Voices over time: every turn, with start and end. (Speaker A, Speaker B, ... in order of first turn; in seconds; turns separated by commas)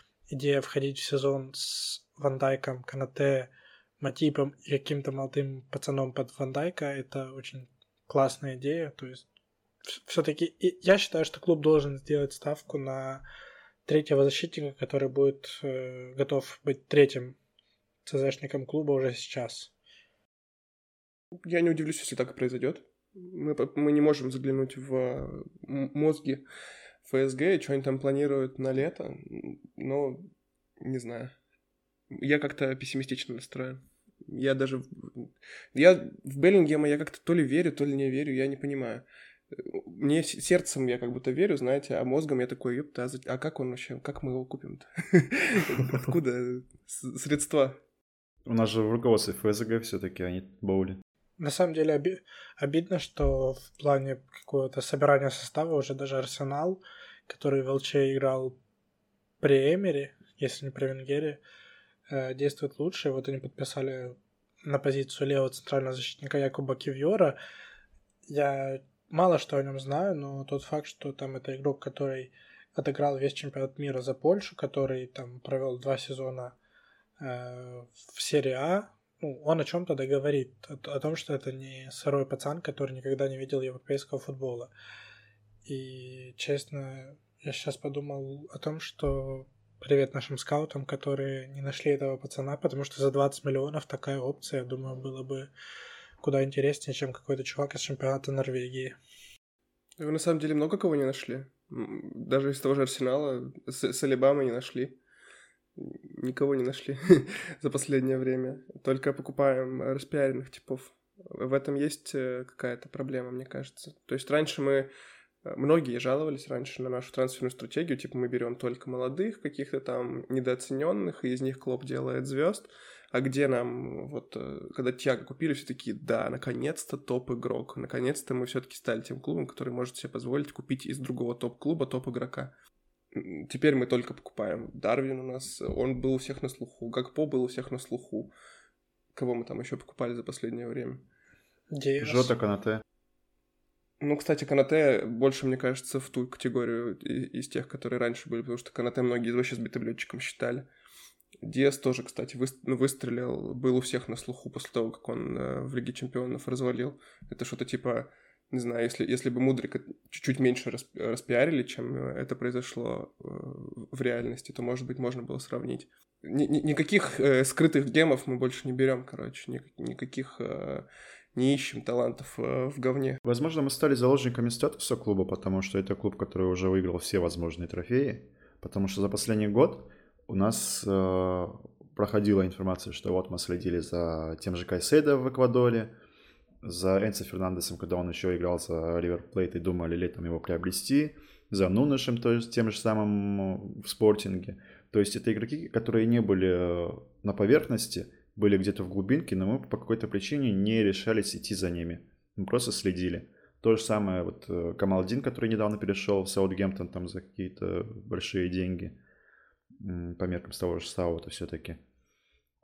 Speaker A: 0.3-9.2, Speaker A: 9.9-13.2, Speaker A: 13.9-17.4, Speaker A: 18.1-19.7, Speaker B: 21.4-26.4, Speaker B: 27.1-30.3, Speaker B: 30.8-31.3, Speaker B: 32.1-47.8, Speaker C: 48.5-51.0, Speaker A: 51.4-58.6, Speaker A: 59.4-61.4, Speaker A: 62.1-67.4, Speaker A: 68.3-76.6, Speaker A: 77.2-84.7, Speaker A: 85.7-95.5, Speaker A: 96.2-99.0, Speaker B: 100.0-105.0, Speaker B: 105.8-114.9, Speaker B: 115.5-132.5, Speaker B: 133.1-138.3, Speaker B: 139.1-141.1, Speaker A: 141.7-142.3, Speaker C: 142.0-142.8, Speaker B: 144.0-150.7, Speaker B: 151.4-173.2, Speaker C: 173.2-185.9, Speaker C: 186.6-209.0, Speaker C: 209.8-211.8